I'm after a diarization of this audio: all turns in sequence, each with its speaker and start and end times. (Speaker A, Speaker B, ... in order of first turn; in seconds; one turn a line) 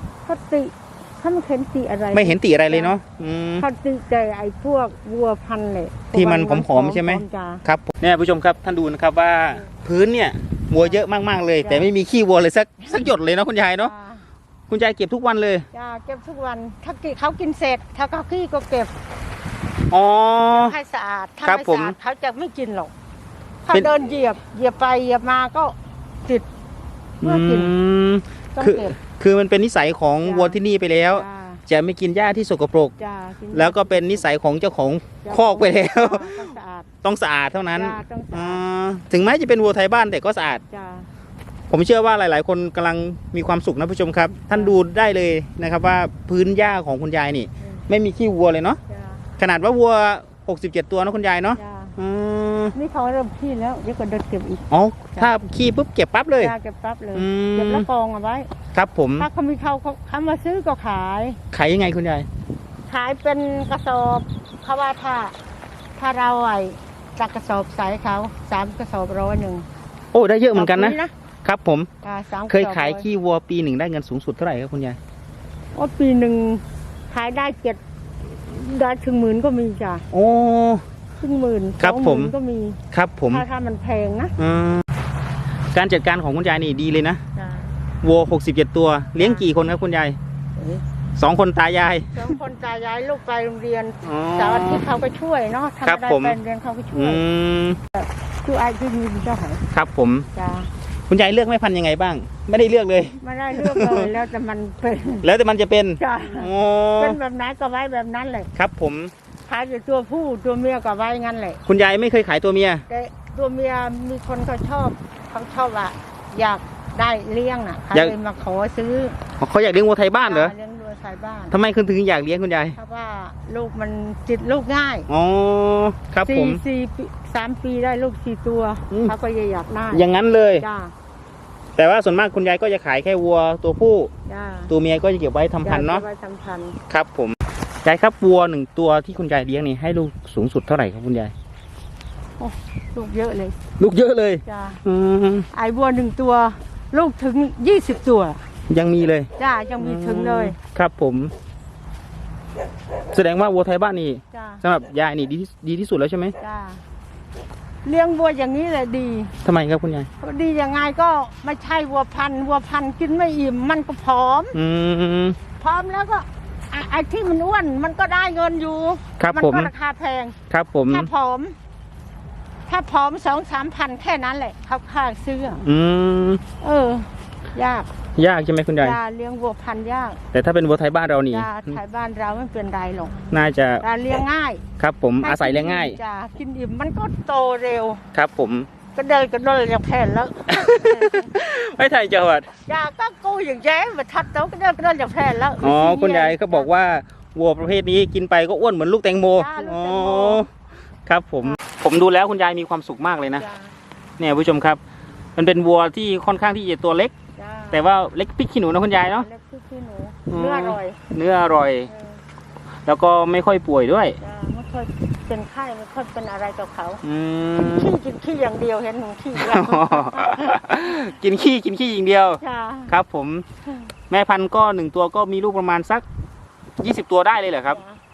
Speaker A: 0.3-3.0
Speaker B: 2.1-3.6
Speaker A: 3.6-7.6
Speaker B: 6.1-13.9
Speaker A: 10.8-11.0
Speaker A: 11.6-11.9
Speaker A: 13.8-14.2
Speaker B: 14.7-15.7
Speaker A: 15.7-18.9
Speaker B: 19.9-20.8
Speaker A: 20.5-22.9
Speaker B: 21.4-21.9
Speaker A: 23.7-26.5
Speaker A: 27.2-27.7
Speaker B: 27.2-32.9
Speaker A: 28.6-29.0
Speaker A: 30.2-30.6
Speaker A: 31.1-31.6
Speaker A: 33.0-34.3
Speaker B: 33.5-40.6
Speaker A: 35.2-36.9
Speaker A: 37.7-38.6
Speaker A: 40.7-41.1
Speaker B: 41.7-48.8
Speaker A: 44.5-44.8
Speaker A: 48.9-49.2
Speaker B: 49.4-52.7
Speaker A: 51.6-52.0
Speaker A: 52.7-54.6
Speaker B: 54.7-56.5
Speaker A: 56.4-58.5
Speaker B: 57.1-57.9
Speaker B: 58.7-59.3
Speaker A: 59.2-61.4
Speaker B: 61.5-62.3
Speaker A: 62.9-65.3
Speaker A: 66.0-69.7
Speaker B: 70.1-71.9
Speaker A: 70.5-71.1
Speaker A: 72.0-73.0
Speaker B: 72.5-75.0
Speaker A: 75.8-77.8
Speaker A: 78.5-80.0
Speaker B: 80.1-80.8
Speaker A: 81.2-84.3
Speaker B: 81.8-82.3
Speaker B: 82.9-83.4
Speaker B: 84.4-84.8
Speaker B: 85.7-87.2
Speaker A: 87.4-87.7
Speaker B: 88.0-90.2
Speaker A: 89.2-89.5
Speaker A: 90.6-90.8
Speaker B: 91.2-92.2
Speaker A: 92.1-97.2
Speaker B: 94.0-94.8
Speaker B: 95.8-96.4
Speaker B: 96.9-97.8
Speaker A: 97.9-99.7
Speaker B: 99.7-100.3
Speaker A: 100.3-100.7
Speaker B: 101.1-104.1
Speaker A: 103.2-105.3
Speaker B: 105.2-107.2
Speaker A: 106.0-108.5
Speaker B: 108.6-109.1
Speaker A: 109.5-111.6
Speaker B: 111.7-112.8
Speaker A: 112.9-119.2
Speaker B: 119.4-120.5
Speaker A: 120.2-121.5
Speaker B: 121.5-122.8
Speaker A: 122.8-125.1
Speaker B: 125.1-126.6
Speaker A: 126.2-130.9
Speaker B: 129.9-130.7
Speaker B: 131.8-134.1
Speaker A: 134.3-134.7
Speaker B: 134.7-136.0
Speaker A: 135.6-136.8
Speaker B: 136.9-141.3
Speaker A: 142.4-143.6
Speaker B: 143.8-145.5
Speaker A: 144.4-144.8
Speaker A: 145.5-148.5
Speaker B: 148.7-151.3
Speaker A: 149.4-150.6
Speaker B: 153.1-156.4
Speaker A: 154.3-154.6
Speaker A: 156.4-156.8
Speaker A: 157.8-159.4
Speaker B: 159.4-160.1
Speaker A: 160.2-164.6
Speaker B: 164.5-165.4
Speaker A: 165.6-170.4
Speaker B: 169.2-169.7
Speaker B: 170.5-171.1
Speaker A: 170.9-171.6
Speaker A: 172.7-175.6
Speaker B: 175.6-176.4
Speaker A: 176.6-177.9
Speaker B: 178.2-179.0
Speaker A: 178.8-180.2
Speaker B: 180.3-181.8
Speaker A: 181.3-184.6
Speaker B: 183.3-183.8
Speaker B: 184.8-186.0
Speaker A: 185.2-188.0
Speaker B: 188.1-188.7
Speaker A: 188.9-191.3
Speaker B: 190.5-192.5
Speaker A: 192.7-196.7
Speaker B: 195.6-200.5
Speaker A: 199.4-200.4
Speaker B: 201.1-203.4
Speaker A: 203.4-203.7
Speaker B: 204.2-204.8
Speaker B: 205.4-207.1
Speaker A: 207.4-207.8
Speaker B: 207.7-209.3
Speaker A: 208.9-211.0
Speaker B: 210.3-211.9
Speaker A: 211.9-212.2
Speaker B: 212.9-214.2
Speaker A: 214.2-217.0
Speaker B: 217.0-217.9
Speaker A: 217.6-220.6
Speaker B: 219.4-223.4
Speaker A: 222.4-222.9
Speaker B: 224.1-226.1
Speaker B: 226.8-227.8
Speaker A: 227.7-228.0